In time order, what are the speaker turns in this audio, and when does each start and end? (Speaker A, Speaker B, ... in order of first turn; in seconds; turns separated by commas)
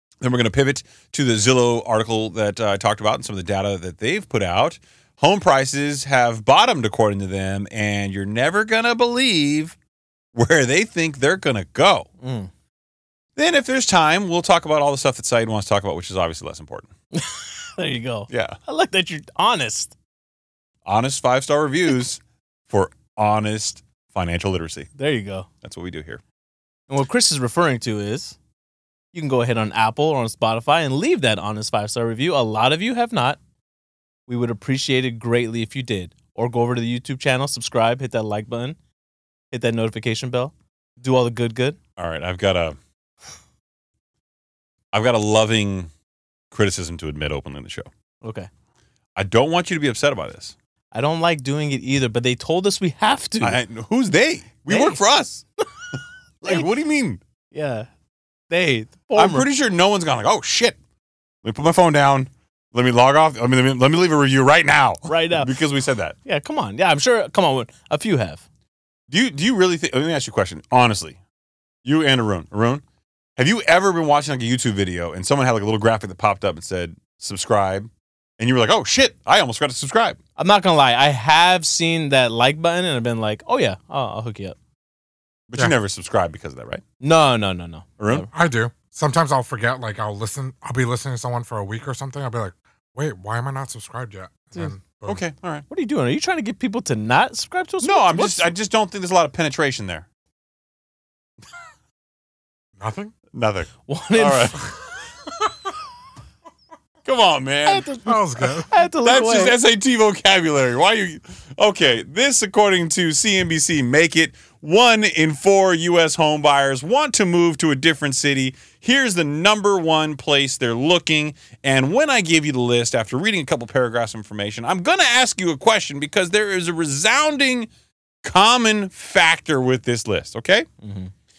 Speaker A: 0.2-9.8, Speaker A: 10.3-12.1, Speaker B: 12.2-12.5, Speaker A: 13.4-16.9, Speaker B: 17.1-19.9, Speaker A: 18.3-18.6, Speaker A: 20.9-24.9, Speaker B: 25.0-25.5, Speaker A: 25.6-26.2, Speaker B: 26.9-28.4, Speaker B: 29.1-33.4, Speaker B: 34.3-38.8, Speaker B: 39.5-41.8, Speaker A: 42.0-42.8, Speaker A: 44.9-45.9, Speaker A: 46.5-47.9, Speaker B: 48.2-48.5, Speaker A: 49.2-50.5, Speaker B: 50.9-53.6, Speaker A: 53.4-55.4, Speaker B: 54.7-55.0, Speaker A: 56.4-57.2, Speaker B: 57.5-57.9, Speaker B: 58.5-59.5, Speaker A: 59.1-60.8, Speaker A: 61.4-66.2, Speaker B: 65.1-65.5, Speaker B: 66.3-68.4, Speaker A: 69.1-71.2, Speaker A: 71.8-72.8, Speaker A: 73.4-80.2, Speaker B: 80.4-84.6, Speaker A: 85.5-86.8, Speaker B: 87.0-88.3, Speaker A: 88.0-88.3, Speaker C: 88.3-95.2, Speaker A: 95.1-95.7, Speaker B: 95.7-98.5, Speaker A: 97.8-100.1, Speaker C: 102.8-103.1, Speaker A: 103.3-104.7, Speaker B: 103.9-104.7, Speaker A: 107.0-108.1, Speaker B: 107.7-109.6, Speaker C: 108.0-108.7, Speaker A: 109.0-127.7, Speaker A: 128.2-130.7, Speaker B: 130.8-131.1